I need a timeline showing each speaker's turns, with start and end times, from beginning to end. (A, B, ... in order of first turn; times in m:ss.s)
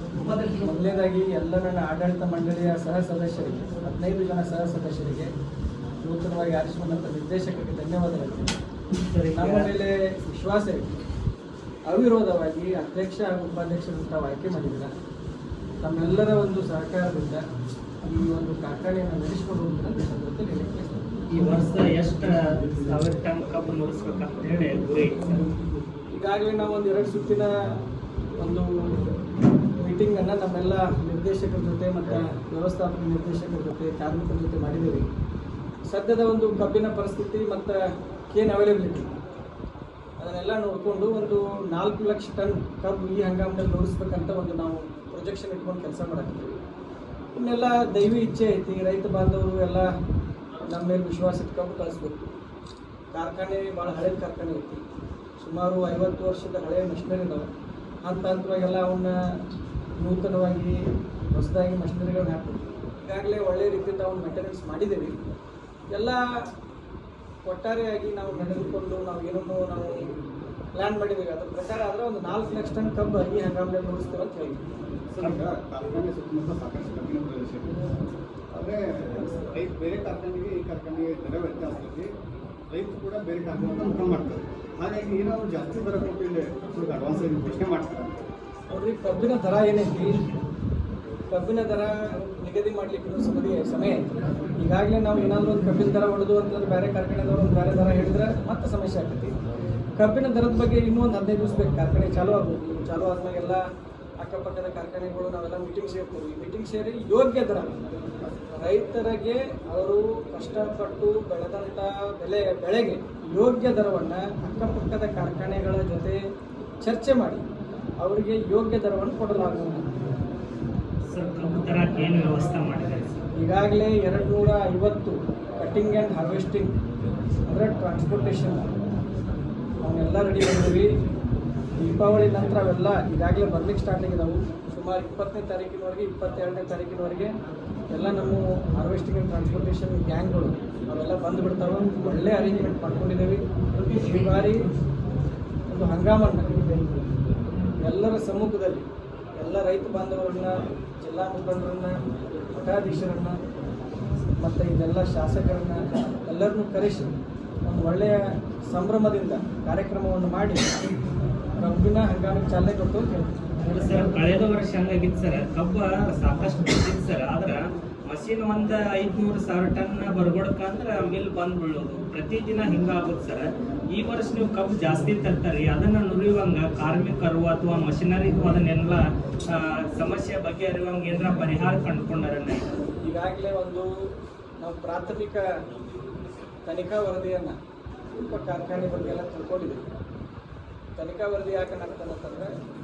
0:00.6-0:05.3 A
0:06.0-0:08.5 A
0:09.0-0:09.7 B
0:09.4-0:10.9 A
0:11.9-0:14.9 A
0:15.8-0:17.4 A
0:18.0-0:21.0 A
0:21.3-0:25.5 B
0:26.1-0:27.5 A
0:28.4-0:28.7 A
0:29.8-0:35.1 A
0:35.9-0:37.8 A
0:38.3-0:39.1 A
0:40.2-0:46.6 A
0:47.3-0:49.9 A
0:50.6-0:52.2 A
0:53.1-0:54.8 A
0:55.4-0:57.5 A
0:58.0-0:59.2 A
1:00.0-1:00.8 A
1:01.3-1:05.1 A
1:05.9-1:06.2 A
1:07.4-1:10.1 A
1:10.8-1:14.6 A
1:15.1-1:17.8 C
1:18.5-1:22.1 C
1:22.7-1:28.3 C
1:28.7-1:30.2 A
1:31.3-1:39.4 A
1:40.0-1:43.6 A
1:44.2-1:47.7 A
1:48.5-1:56.2 A
1:56.8-1:57.4 A
1:58.0-1:59.9 A
2:01.1-2:03.1 B
2:03.4-2:06.7 A
2:07.5-2:08.7 A
2:09.8-2:10.9 A
2:11.8-2:17.3 A
2:17.9-2:24.6 A
2:25.7-2:26.5 A
2:27.8-2:28.9 A
2:29.4-2:33.4 A
2:34.4-2:37.1 A
2:37.6-2:40.8 A
2:41.6-2:43.3 A
2:43.7-3:02.7 B
3:03.0-3:03.9 A
3:04.6-3:05.5 A
3:06.7-3:07.6 A
3:08.1-3:09.8 A
3:11.0-3:12.5 A